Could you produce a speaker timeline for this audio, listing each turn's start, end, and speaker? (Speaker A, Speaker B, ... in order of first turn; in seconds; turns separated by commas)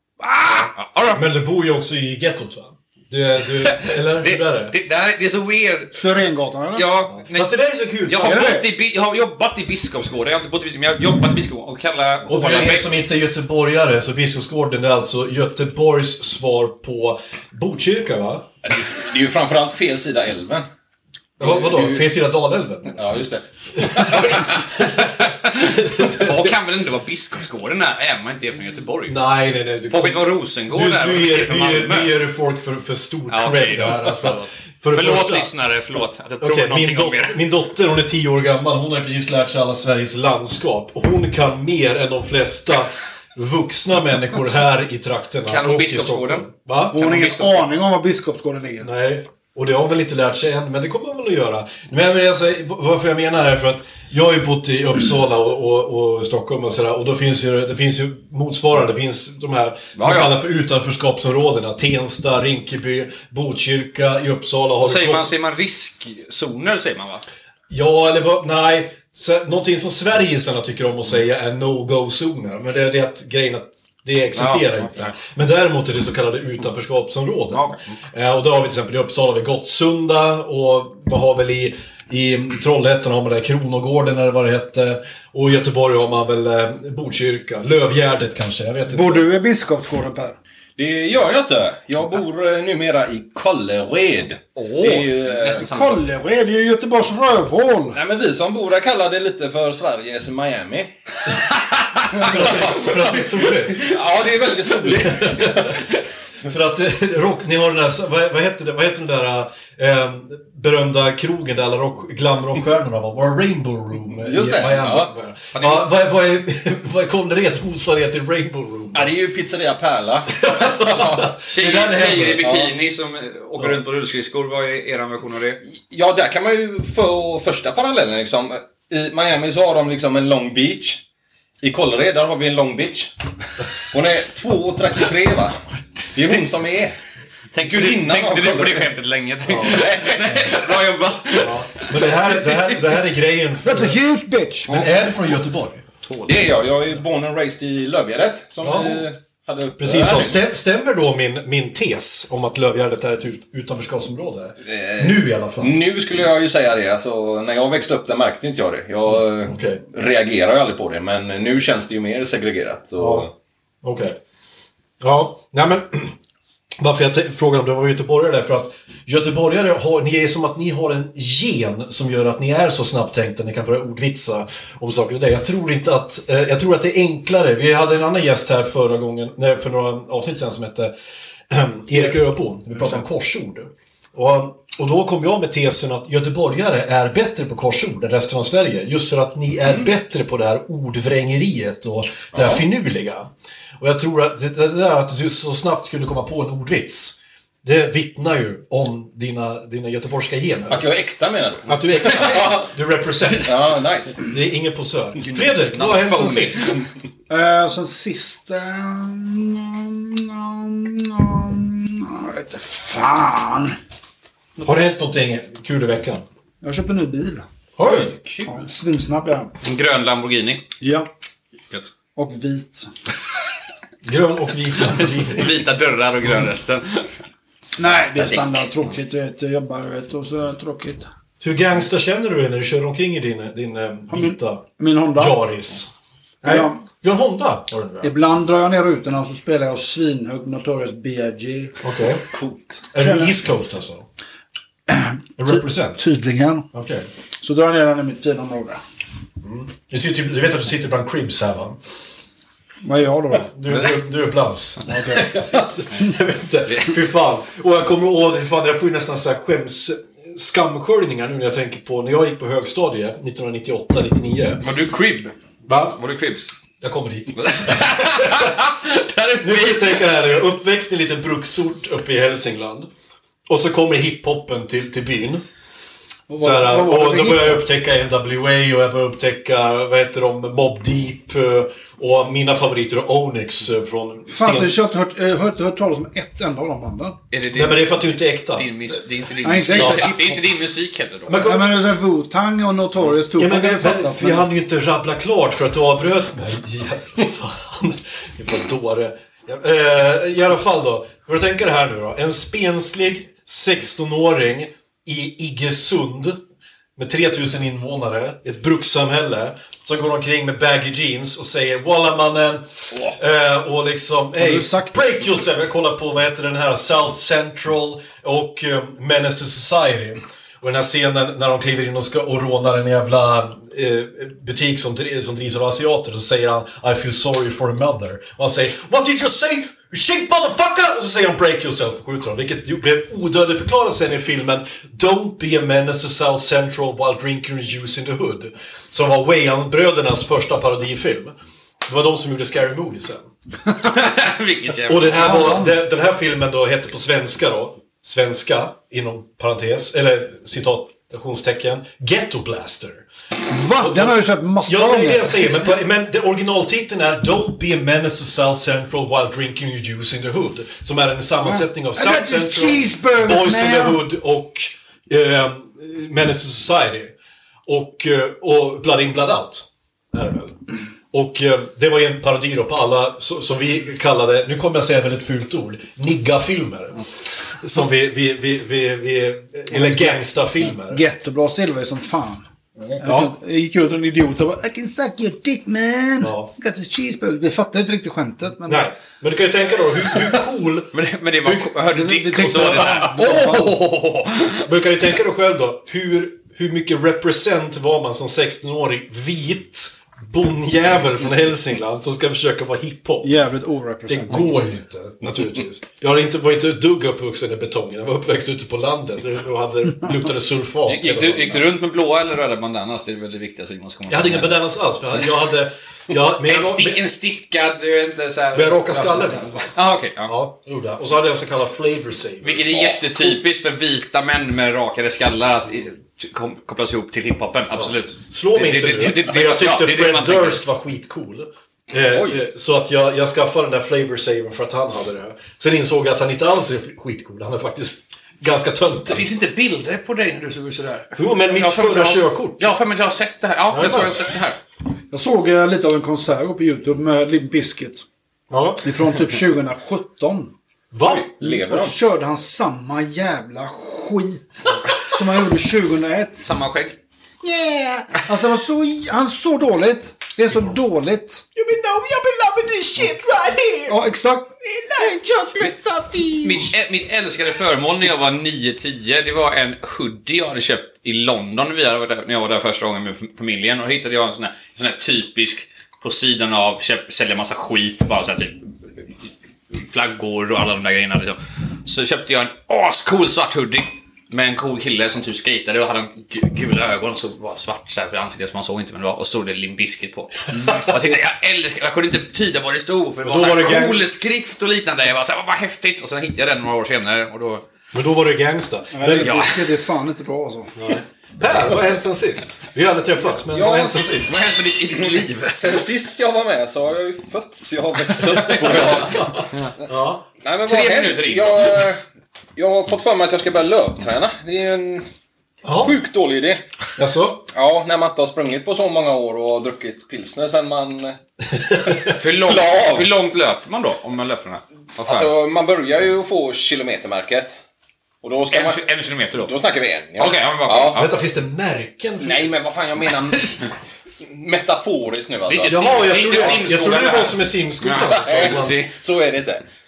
Speaker A: 0.2-0.7, Speaker B: 0.5-1.2, Speaker C: 1.1-4.8, Speaker B: 3.5-6.1, Speaker A: 5.9-6.9, Speaker B: 6.8-7.5, Speaker C: 7.3-8.6, Speaker B: 8.1-13.0, Speaker A: 8.2-8.7, Speaker C: 12.3-18.5, Speaker D: 18.7-20.7, Speaker C: 21.4-23.0, Speaker D: 21.4-22.0, Speaker D: 23.0-23.4, Speaker C: 23.8-26.6, Speaker B: 23.9-29.1, Speaker C: 29.1-35.5, Speaker B: 29.9-32.1, Speaker B: 33.3-37.4, Speaker C: 36.4-47.0, Speaker B: 45.5-47.7, Speaker A: 46.9-48.9, Speaker C: 48.8-65.3, Speaker B: 60.0-60.3, Speaker B: 64.8-67.2, Speaker C: 67.7-89.3, Speaker B: 74.3-75.1, Speaker B: 77.5-77.8, Speaker A: 88.9-90.4, Speaker D: 90.8-95.7, Speaker B: 94.6-96.1, Speaker A: 95.6-98.0, Speaker D: 97.9-100.9, Speaker B: 101.7-102.0, Speaker C: 102.2-104.0, Speaker D: 103.8-105.6, Speaker C: 104.8-105.8, Speaker C: 106.5-119.1, Speaker D: 114.2-115.1, Speaker B: 115.5-115.9, Speaker D: 118.9-121.4, Speaker C: 120.4-122.5, Speaker B: 121.5-125.6, Speaker D: 122.4-122.7, Speaker D: 125.7-131.0, Speaker D: 131.6-133.1, Speaker D: 133.8-135.6, Speaker D: 136.1-137.0, Speaker B: 137.5-142.8, Speaker D: 137.6-138.9, Speaker C: 139.5-139.8, Speaker D: 139.5-140.6, Speaker C: 141.4-144.0, Speaker A: 143.6-144.8, Speaker C: 144.7-145.9, Speaker B: 146.1-146.4, Speaker D: 146.3-150.4, Speaker C: 148.6-149.1, Speaker C: 149.8-155.8, Speaker D: 154.7-163.3, Speaker C: 159.4-159.8, Speaker C: 163.0-163.3, Speaker C: 163.8-164.2, Speaker C: 165.0-166.2, Speaker C: 166.8-180.9, Speaker C: 181.5-200.9, Speaker D: 192.3-192.7, Speaker D: 200.7-202.7, Speaker C: 201.7-203.7, Speaker D: 203.3-204.3, Speaker C: 204.3-206.8, Speaker B: 205.2-206.8, Speaker A: 207.3-213.8, Speaker C: 214.6-216.2, Speaker A: 216.6-217.5, Speaker C: 217.8-218.1, Speaker D: 217.8-218.6, Speaker A: 218.5-219.5, Speaker B: 219.6-220.6, Speaker A: 220.8-221.1, Speaker A: 222.2-222.9, Speaker C: 224.0-225.7, Speaker B: 225.2-227.0, Speaker A: 227.6-231.1, Speaker B: 228.2-228.6, Speaker C: 231.4-234.6, Speaker A: 234.1-235.4, Speaker C: 235.2-235.9, Speaker C: 236.4-238.1, Speaker A: 236.4-236.8, Speaker A: 238.0-241.7, Speaker C: 241.8-242.2, Speaker D: 242.3-242.7, Speaker C: 242.9-244.1, Speaker A: 243.0-243.4, Speaker A: 244.9-246.7, Speaker C: 245.4-246.0, Speaker C: 246.7-247.1, Speaker A: 247.4-248.8, Speaker C: 249.4-251.8, Speaker A: 252.8-253.5, Speaker C: 253.3-264.6, Speaker B: 256.7-257.0, Speaker B: 264.6-265.3, Speaker C: 265.7-266.0, Speaker B: 265.9-266.5, Speaker C: 266.8-268.5, Speaker B: 267.4-270.1, Speaker C: 269.4-272.9, Speaker C: 273.5-275.4, Speaker A: 276.3-277.6, Speaker C: 276.4-284.8, Speaker A: 284.3-287.2, Speaker B: 287.3-287.9, Speaker C: 287.5-288.7, Speaker B: 288.6-291.6, Speaker A: 289.4-290.4, Speaker C: 289.7-290.1, Speaker C: 291.3-291.8, Speaker A: 291.4-294.5, Speaker C: 293.3-306.4, Speaker C: 307.0-343.3, Speaker A: 314.4-315.2, Speaker B: 343.8-345.6, Speaker C: 344.8-353.1, Speaker A: 345.1-345.7, Speaker A: 353.5-355.8, Speaker C: 353.8-367.1, Speaker A: 361.4-364.0, Speaker C: 367.7-381.0, Speaker A: 380.8-382.4, Speaker C: 382.8-383.3, Speaker A: 383.0-388.9, Speaker C: 386.2-386.5, Speaker C: 388.6-391.7, Speaker B: 390.9-394.7, Speaker A: 391.9-393.8, Speaker C: 392.4-393.1, Speaker C: 394.6-403.4, Speaker A: 403.2-404.5, Speaker C: 404.1-411.6, Speaker B: 410.9-414.5, Speaker C: 414.1-417.1, Speaker B: 416.4-420.4, Speaker C: 418.5-419.6, Speaker C: 420.2-422.7, Speaker B: 422.4-430.6, Speaker D: 422.7-423.0, Speaker C: 427.8-439.3, Speaker D: 432.1-432.4, Speaker B: 439.1-444.6, Speaker C: 441.2-442.8, Speaker C: 443.7-444.3, Speaker A: 445.1-448.1, Speaker C: 448.5-448.9, Speaker A: 448.8-450.5, Speaker C: 450.9-451.3, Speaker D: 451.1-452.0, Speaker A: 451.4-456.5, Speaker B: 456.4-457.0, Speaker A: 457.4-461.5, Speaker C: 461.6-464.0, Speaker A: 463.9-466.7, Speaker B: 466.4-478.6, Speaker B: 479.7-497.6, Speaker A: 490.5-491.2, Speaker C: 493.2-494.1, Speaker C: 497.9-499.4, Speaker A: 498.9-500.7, Speaker B: 499.2-499.6, Speaker C: 500.8-504.4, Speaker D: 503.5-504.2, Speaker B: 504.2-505.8, Speaker D: 505.5-509.2, Speaker B: 508.1-509.0, Speaker C: 508.5-510.2, Speaker D: 510.4-512.0, Speaker B: 510.6-511.9, Speaker D: 512.6-515.1, Speaker C: 515.6-516.0, Speaker D: 515.8-516.6, Speaker C: 517.0-517.5, Speaker D: 517.5-521.2, Speaker C: 521.6-522.1, Speaker D: 522.1-523.1, Speaker B: 522.2-525.3, Speaker D: 525.0-527.6, Speaker D: 528.2-528.9, Speaker B: 528.5-529.5, Speaker D: 529.4-531.0, Speaker B: 530.2-531.1, Speaker C: 531.0-532.4, Speaker D: 532.2-536.6, Speaker B: 535.5-538.9, Speaker C: 535.7-538.8, Speaker D: 538.2-539.6